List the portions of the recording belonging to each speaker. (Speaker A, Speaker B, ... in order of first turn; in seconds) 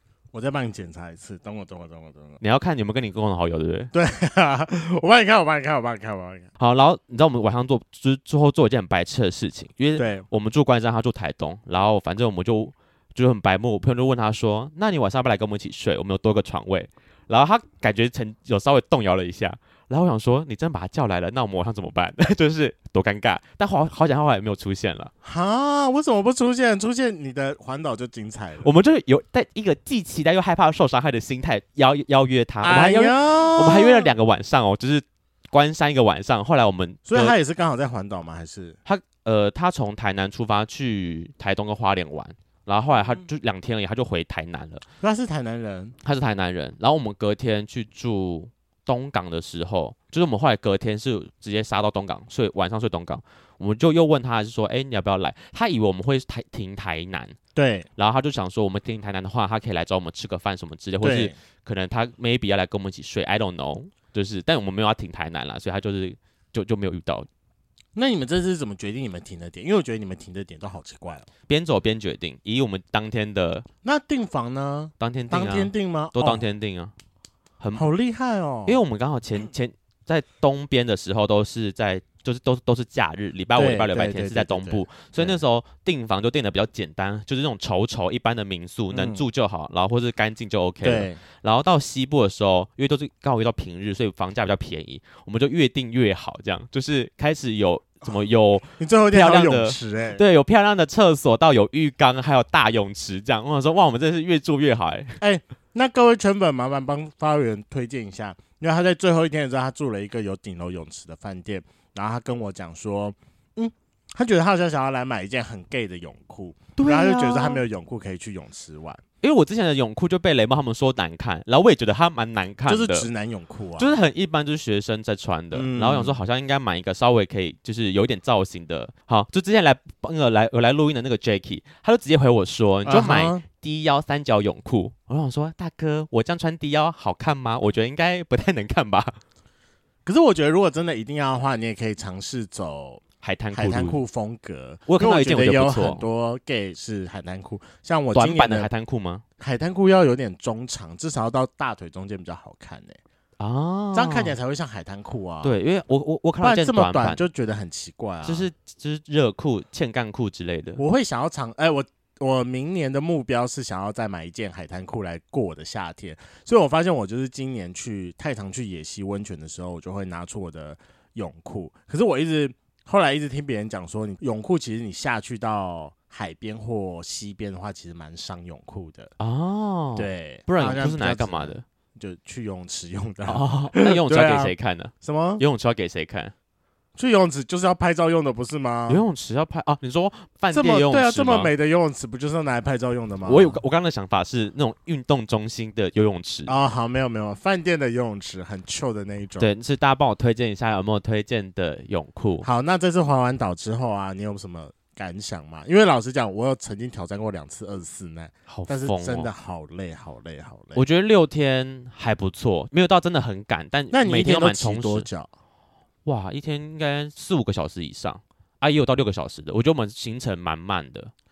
Speaker A: 0.3-2.4, 3.9-6.5, 10.0-10.2, 25.2-28.7, 32.6-34.1, 37.1-38.8, 45.0-46.0, 57.5-57.9, 61.0-61.3, 68.0-71.3, 73.8-76.5, 77.8-78.8, 83.5-85.4, 88.9-89.2, 90.8-91.2, 98.8-100.2, 105.2-119.0, 122.7-124.0, 125.5-126.2, 132.9-133.4, 140.1-143.0, 143.5-148.7, 149.4-153.0, 153.9-155.6, 156.4-158.5, 160.8-179.1, 180.0-185.4, 187.0-189.0, 190.5-193.6, 196.5-199.5, 202.4-210.8, 213.9-215.3
Speaker B: 2.4-3.9, 6.6-25.1, 28.6-37.4, 38.9-44.8, 46.0-57.4, 58.0-67.3, 71.5-73.7, 75.0-76.9, 77.6-77.9, 78.7-105.2, 116.8-117.6, 119.2-123.1, 123.8-139.2, 143.2-144.0, 144.9-146.1, 148.1-149.2, 153.4-154.4, 155.4-157.2, 158.2-160.8, 179.2-181.6, 183.3-186.3, 188.9-191.5, 193.2-196.6, 199.4-202.5, 208.5-209.3, 210.8-215.1, 216.1-221.1